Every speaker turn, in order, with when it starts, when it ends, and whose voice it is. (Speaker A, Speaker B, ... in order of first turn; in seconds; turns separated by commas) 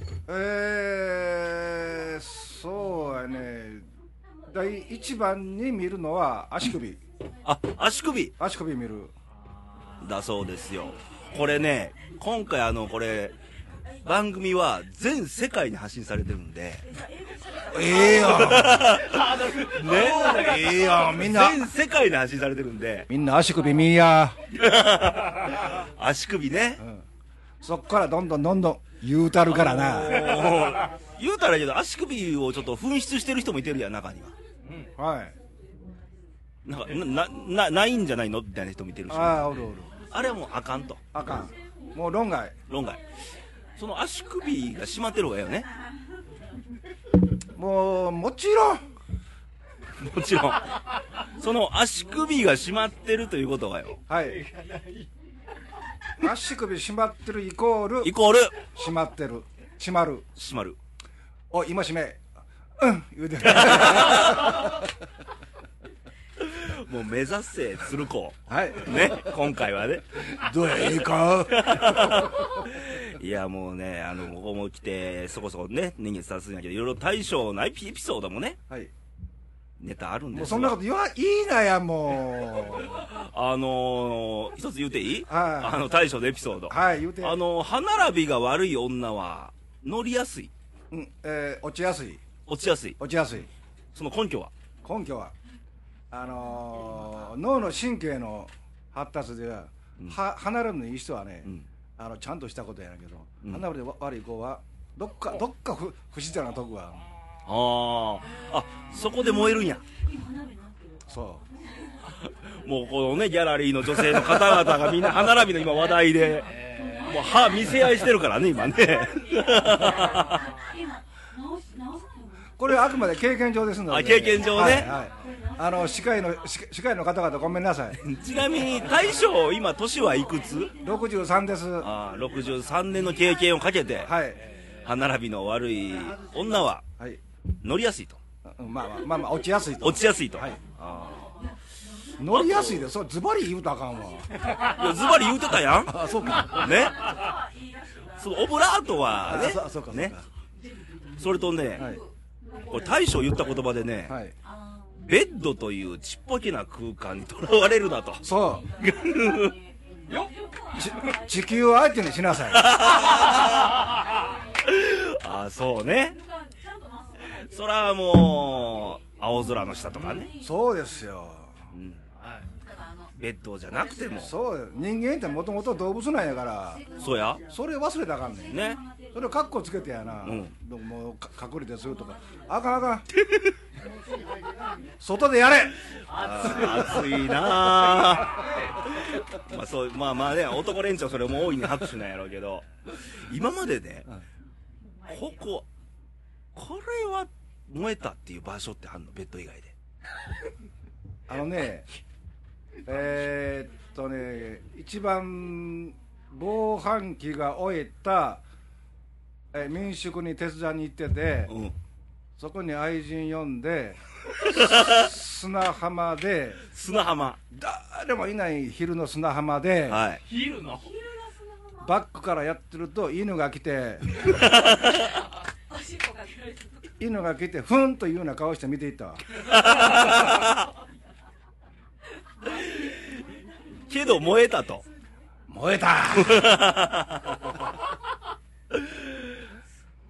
Speaker A: 0.3-3.9, Speaker A: 4.5-7.0, Speaker B: 7.5-8.3, Speaker A: 8.4-9.1, Speaker B: 10.0-13.3, Speaker B: 14.0-16.9, Speaker C: 17.2-18.4, Speaker A: 17.7-19.0, Speaker B: 18.1-23.1, Speaker D: 19.1-20.7, Speaker A: 20.0-21.6, Speaker A: 23.1-24.4, Speaker B: 24.5-26.8, Speaker A: 26.8-27.1, Speaker A: 27.6-30.3, Speaker B: 29.5-34.3, Speaker A: 35.0-35.4, Speaker B: 36.7-41.2, Speaker A: 39.1-39.9, Speaker A: 41.1-42.6, Speaker B: 42.7-43.0, Speaker B: 43.8-45.7, Speaker A: 47.5-48.8, Speaker B: 50.0-54.0, Speaker A: 54.1-54.4, Speaker A: 56.2-58.1, Speaker B: 58.0-58.6, Speaker A: 58.8-60.3, Speaker B: 60.4-60.8, Speaker A: 61.5-62.3, Speaker A: 62.8-64.9, Speaker B: 63.4-64.6, Speaker B: 66.4-70.8, Speaker A: 68.5-69.4, Speaker A: 70.3-72.5, Speaker B: 71.5-78.6, Speaker B: 79.8-80.8, Speaker A: 80.3-82.9, Speaker B: 82.8-90.5, Speaker A: 85.3-85.8, Speaker A: 86.7-87.4, Speaker A: 90.9-92.2, Speaker B: 92.5-93.0, Speaker A: 93.0-93.5, Speaker B: 93.9-94.5, Speaker A: 94.8-95.3, Speaker A: 96.1-107.0, Speaker B: 107.5-109.8, Speaker A: 111.1-111.5, Speaker B: 112.0-120.5, Speaker A: 122.6-128.0, Speaker B: 123.9-124.9, Speaker B: 128.0-130.7, Speaker A: 130.8-131.9, Speaker B: 131.8-136.8, Speaker A: 134.0-134.4, Speaker B: 137.6-138.2, Speaker A: 138.5-140.6, Speaker B: 139.8-141.4, Speaker A: 142.2-144.5, Speaker B: 142.2-142.9, Speaker B: 144.6-147.2, Speaker A: 145.8-146.7, Speaker C: 147.1-147.9, Speaker B: 148.1-150.2, Speaker A: 149.2-150.3, Speaker B: 151.2-151.9, Speaker A: 151.8-152.0, Speaker B: 152.6-154.2, Speaker A: 154.1-154.3, Speaker B: 155.0-159.6, Speaker A: 158.2-158.7, Speaker C: 160.3-160.6, Speaker A: 160.8-162.8, Speaker B: 162.5-164.0, Speaker B: 164.6-166.2, Speaker C: 166.3-167.3, Speaker B: 167.2-170.3, Speaker A: 170.4-171.5, Speaker B: 171.7-172.0, Speaker B: 173.2-174.3, Speaker A: 174.1-176.8, Speaker B: 177.0-177.4, Speaker A: 177.5-178.6, Speaker B: 178.5-178.8, Speaker A: 179.1-183.1, Speaker B: 180.2-180.5, Speaker A: 185.0-185.8, Speaker B: 186.1-194.1, Speaker B: 195.1-195.7, Speaker B: 196.5-199.7, Speaker A: 201.3-201.9, Speaker A: 202.9-208.4, Speaker A: 209.5-211.5, Speaker B: 211.5-211.8, Speaker A: 212.4-216.6, Speaker B: 214.4-215.0, Speaker B: 216.7-217.4, Speaker A: 217.5-220.1, Speaker B: 219.9-220.3, Speaker D: 220.3-220.9, Speaker A: 221.8-224.2, Speaker B: 224.2-225.1, Speaker C: 225.7-226.8, Speaker A: 227.0-229.2, Speaker B: 229.4-230.7, Speaker B: 232.5-233.2, Speaker B: 233.9-234.8, Speaker A: 235.5-236.6, Speaker B: 236.1-237.6, Speaker B: 238.7-239.1